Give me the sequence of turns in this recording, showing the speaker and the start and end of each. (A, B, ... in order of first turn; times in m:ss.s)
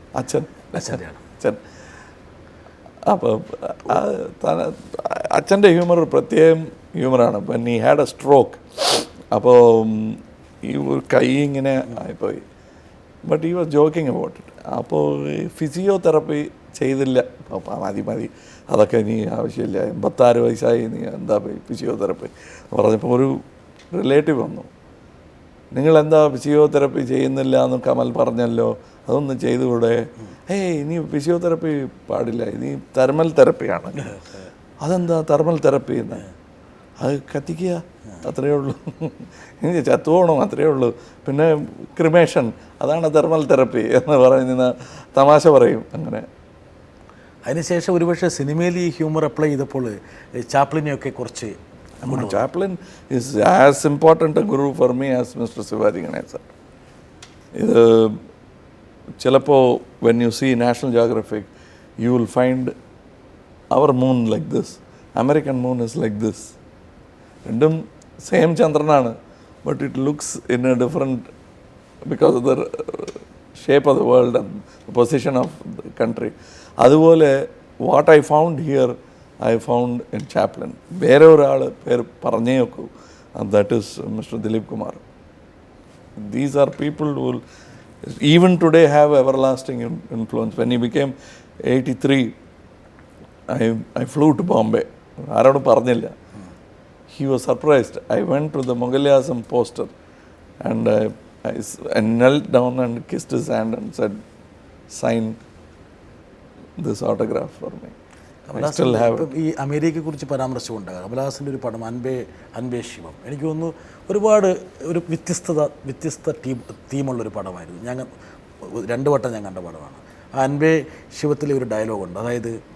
0:00.1-0:01.6 A
0:00.7-0:01.2 B
0:03.0-0:12.4 A
0:13.2-0:23.4 A
0:23.9-0:24.7 A
0:25.7-0:34.1 A
0:34.0-0:34.3 B
0:34.8-0:36.3 A
0:37.0-0:46.2 A
0:47.4-0:52.4 B
0:52.0-0:56.5 A
0:57.6-0:58.2 A
0:59.2-1:01.5 A
1:02.0-1:02.7 A
1:03.7-1:06.5 A
1:07.4-1:11.3 A
1:12.1-1:17.3 A
1:17.8-1:25.0 A
1:26.2-1:27.4 A
1:28.0-1:31.1 A
1:31.7-1:32.3 A
1:33.5-1:36.1 A
1:37.1-1:39.9 A
1:40.6-1:44.2 A
1:44.9-1:45.4 A
1:46.8-1:47.9 A
1:48.5-1:58.1 B
1:48.5-1:49.2 A
1:58.6-2:02.6 B